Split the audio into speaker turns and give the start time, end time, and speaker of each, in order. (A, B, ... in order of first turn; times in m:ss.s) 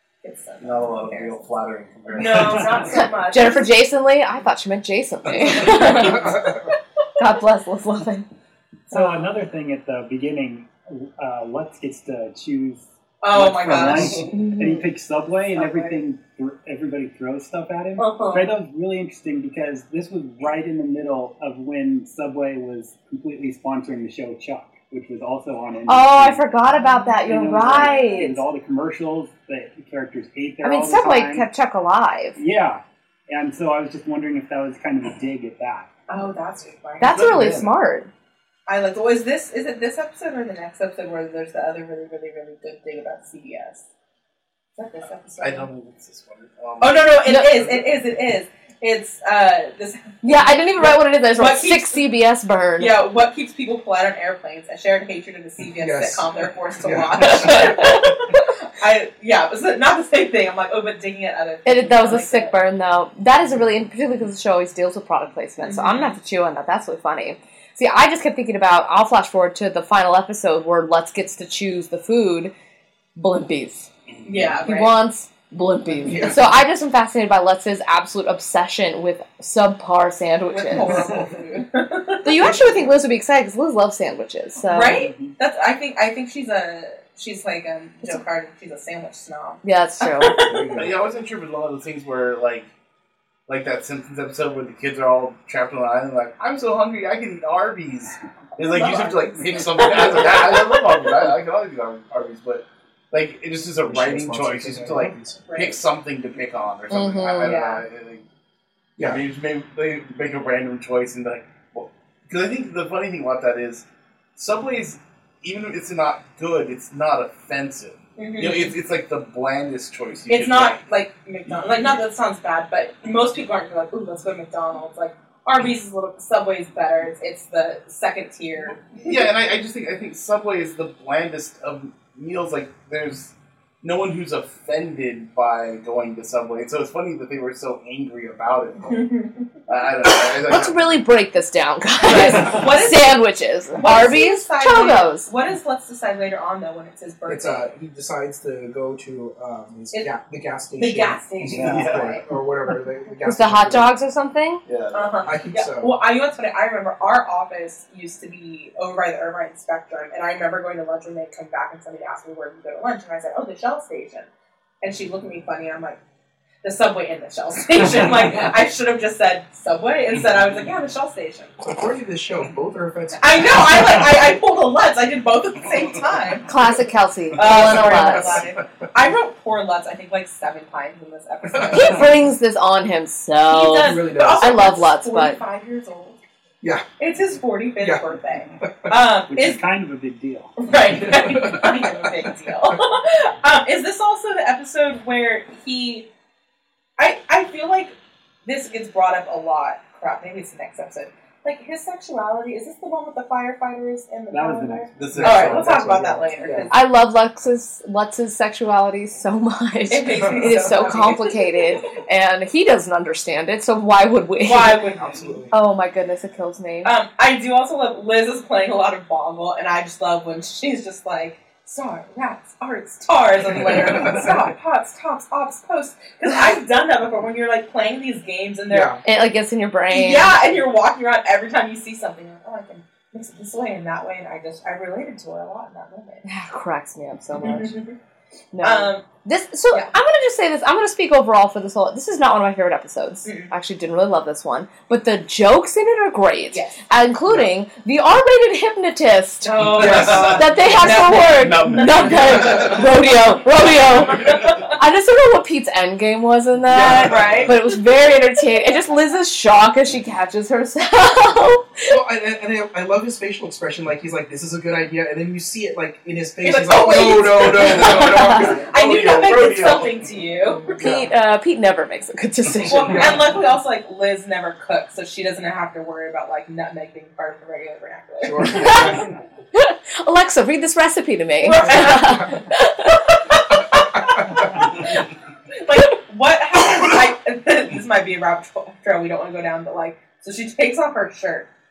0:00.2-0:01.4 A
0:00.6-0:02.9 B
0:02.1-0:03.7 A
0:02.9-0:06.6 C
0:05.6-0:05.9 B
0:06.0-0:06.5 D
0:07.2-0:08.3 C
0:08.9-0:31.5 E
0:13.2-0:14.3 A
0:14.3-0:14.8 C
0:15.6-0:16.0 A
0:18.0-0:18.5 A
0:25.9-0:28.4 C
0:27.7-0:28.2 A
0:30.6-0:32.4 C
0:32.4-0:35.9 E
0:36.1-0:37.2 A
0:37.0-0:38.1 C
0:37.1-0:37.7 B
0:38.7-0:43.8 A
0:44.8-0:45.7 A
0:45.4-0:47.9 B
0:46.8-0:52.0 A
0:47.3-0:47.5 C
0:50.2-0:53.0 C
0:52.8-1:02.5 A
0:55.8-0:56.3 D
0:56.8-0:57.8 D
0:57.4-0:58.0 C
1:01.6-1:12.5 C
1:05.6-1:06.2 A
1:13.2-1:13.9 C
1:14.2-1:14.5 B
1:14.2-1:15.0 A
1:14.6-1:21.0 C
1:16.0-1:16.4 D
1:20.5-1:22.6 A
1:22.2-1:25.1 C
1:24.7-1:30.7 A
1:29.6-1:30.4 C
1:30.4-1:31.0 D
1:30.7-1:32.7 B
1:33.5-1:48.2 B
1:38.7-1:40.9 A
1:43.8-1:45.5 D
1:45.5-1:45.8 A
1:46.9-1:47.6 C
1:47.4-1:47.8 A
1:49.0-2:00.8 B
1:58.2-1:58.7 A
2:00.3-2:09.3 A
2:09.0-2:19.1 B
2:18.9-2:19.3 A
2:19.7-2:20.9 B
2:20.4-2:25.3 C
2:22.0-2:23.2 A
2:23.8-2:27.7 A
2:27.3-2:33.9 D
2:30.8-2:32.2 A
2:31.4-2:32.2 B
2:33.2-2:34.6 C
2:34.6-2:35.3 B
2:34.9-2:44.3 A
2:35.2-2:36.0 D
2:44.8-2:46.0 A
2:46.6-2:51.5 A
2:51.6-2:54.1 D
2:53.2-2:56.5 A
2:56.5-2:58.4 C
2:57.4-3:02.1 A
2:57.6-2:58.5 D
3:01.7-3:05.4 C
3:03.5-3:06.2 A
3:03.8-3:04.7 D
3:07.0-3:09.6 A
3:09.3-3:10.6 E
3:10.6-3:16.1 A
3:11.1-3:11.8 D
3:17.0-3:17.9 A
3:18.4-3:26.8 A
3:24.3-3:25.0 E
3:25.0-3:26.0 B
3:25.1-3:26.7 D
3:26.7-3:34.8 C
3:29.9-3:31.7 A
3:30.2-3:30.5 D
3:34.4-3:35.4 A
3:35.0-3:35.5 D
3:35.5-3:36.9 C
3:36.8-3:49.0 A
3:43.9-3:44.3 D
3:48.7-3:49.0 D
3:49.0-3:50.4 C
3:49.9-3:56.2 A
3:56.3-3:57.8 C
3:57.4-3:58.0 A
3:58.5-4:22.0 C
3:58.6-3:59.0 A
4:03.2-4:03.5 A
4:06.5-4:06.8 A
4:09.4-4:13.1 A
4:09.6-4:12.7 B
4:09.7-4:10.4 D
4:14.0-4:14.7 A
4:14.2-4:14.6 B
4:16.7-4:17.4 D
4:16.7-4:17.6 A
4:21.9-4:28.7 D
4:26.4-4:30.9 A
4:27.6-4:29.9 B
4:28.2-4:28.4 C
4:30.6-4:31.1 D
4:30.8-4:33.2 C
4:32.7-4:39.0 A
4:32.9-4:33.2 D
4:38.2-4:39.1 D
4:38.6-4:38.9 C
4:39.6-4:43.4 C
4:41.4-4:42.4 A
4:41.7-4:42.1 D
4:43.7-4:44.2 D
4:45.6-4:51.5 A